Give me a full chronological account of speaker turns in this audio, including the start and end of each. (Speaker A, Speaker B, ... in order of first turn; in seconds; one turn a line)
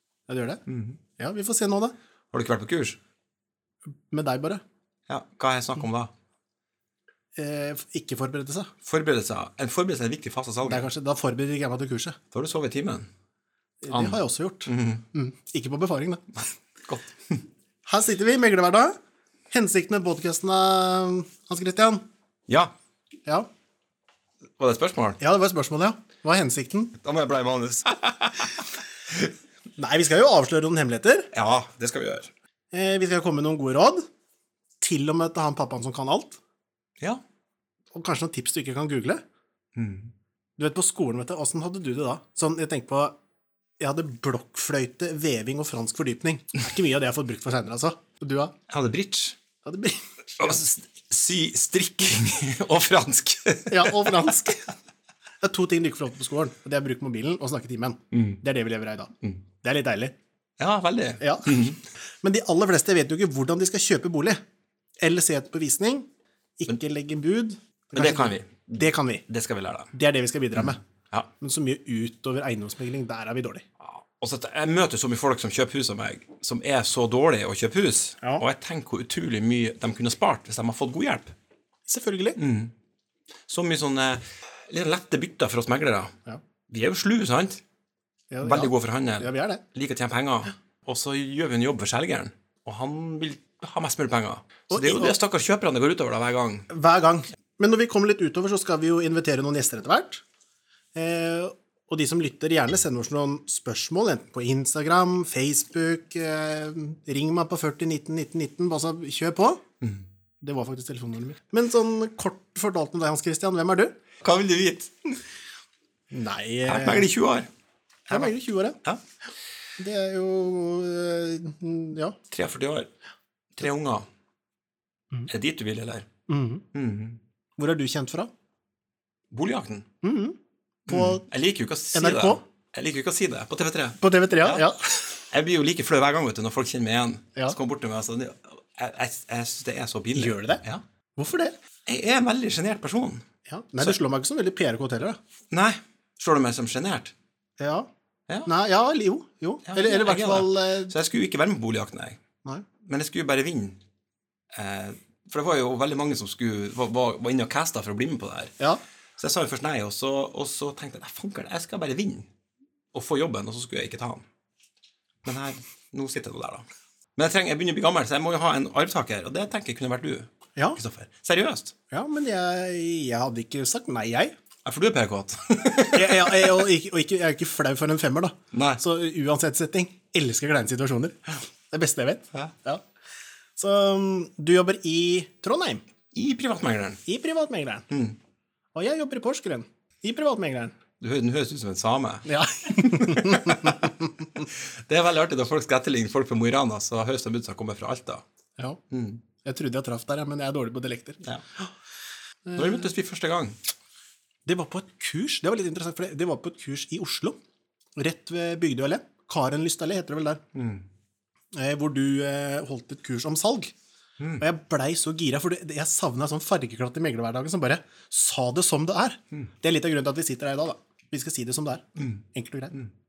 Speaker A: 0.3-0.6
Speaker B: 0.7-1.0
Speaker A: 1.2-1.9
Speaker B: 2.3-3.0
Speaker A: 4.1-4.6
Speaker B: 5.1-6.1
Speaker A: 7.3-8.7
Speaker B: 8.8-10.9
Speaker A: 10.6-12.2
Speaker B: 12.3-13.1
Speaker A: 13.8-16.4
Speaker B: 13.9-15.0
Speaker B: 16.8-17.4
Speaker A: 17.8-18.9
Speaker A: 19.5-22.0
Speaker B: 22.5-22.7
Speaker B: 24.6-25.2
Speaker A: 25.2-26.9
Speaker B: 27.0-28.6
Speaker A: 29.8-31.3
Speaker B: 31.3-32.3
Speaker A: 32.7-34.0
Speaker A: 34.8-36.4
Speaker A: 37.9-39.2
Speaker B: 39.8-40.1
Speaker A: 40.6-43.1
Speaker A: 43.8-48.5
Speaker B: 48.7-49.4
Speaker A: 49.6-50.6
Speaker B: 50.4-54.3
Speaker A: 53.7-54.6
Speaker A: 55.4-60.1
Speaker B: 58.1-58.4
Speaker B: 60.6-61.8
Speaker A: 61.2-61.6
Speaker A: 62.2-64.4
Speaker A: 65.0-66.1
Speaker A: 66.6-69.2
Speaker B: 67.9-69.9
Speaker A: 69.9-70.8
Speaker B: 70.5-71.3
Speaker A: 71.4-73.6
Speaker B: 73.8-81.3
Speaker A: 81.9-82.4
Speaker B: 82.4-82.7
Speaker B: 83.5-86.1
Speaker B: 86.7-87.6
Speaker A: 88.3-89.6
Speaker B: 88.4-96.7
Speaker A: 94.7-95.1
Speaker A: 96.7-100.2
Speaker A: 100.9-109.6
Speaker A: 110.4-113.9
Speaker B: 114.2-115.2
Speaker A: 116.1-117.1
Speaker B: 116.7-117.5
Speaker B: 118.1-118.3
Speaker A: 118.1-118.8
Speaker A: 119.8-122.2
Speaker B: 122.3-122.9
Speaker B: 123.5-124.0
Speaker B: 125.3-126.1
Speaker A: 126.3-126.6
Speaker B: 126.7-127.2
Speaker A: 127.6-128.3
Speaker B: 129.3-129.8
Speaker A: 130.0-130.4
Speaker B: 130.9-134.7
Speaker A: 130.9-131.2
Speaker A: 131.9-132.4
Speaker A: 134.0-135.2
Speaker B: 135.3-140.8
Speaker A: 140.1-140.6
Speaker A: 141.2-141.5
Speaker B: 141.8-143.2
Speaker A: 143.4-145.2
Speaker B: 145.5-147.1
Speaker A: 147.6-147.9
Speaker A: 148.4-150.9
Speaker B: 149.7-152.2
Speaker B: 152.8-153.8
Speaker B: 154.5-158.5
Speaker B: 159.2-162.3
Speaker B: 162.9-164.2
Speaker B: 165.2-166.6
Speaker B: 167.2-171.7
Speaker A: 171.9-174.3
Speaker B: 174.7-176.6
Speaker A: 175.9-182.8
Speaker B: 178.5-178.8
Speaker A: 183.6-185.8
Speaker B: 186.1-187.0
Speaker A: 187.1-187.8
Speaker B: 187.9-188.2
Speaker A: 188.7-190.7
Speaker B: 191.0-193.9
Speaker A: 192.2-194.4
Speaker B: 194.5-198.2
Speaker B: 198.9-199.2
Speaker A: 199.4-201.7
Speaker A: 202.5-202.9
Speaker B: 202.6-203.6
Speaker A: 204.4-207.4
Speaker A: 207.9-210.4
Speaker B: 210.5-210.8
Speaker A: 211.5-213.7
Speaker B: 214.2-214.4
Speaker A: 214.4-222.8
Speaker B: 222.0-222.2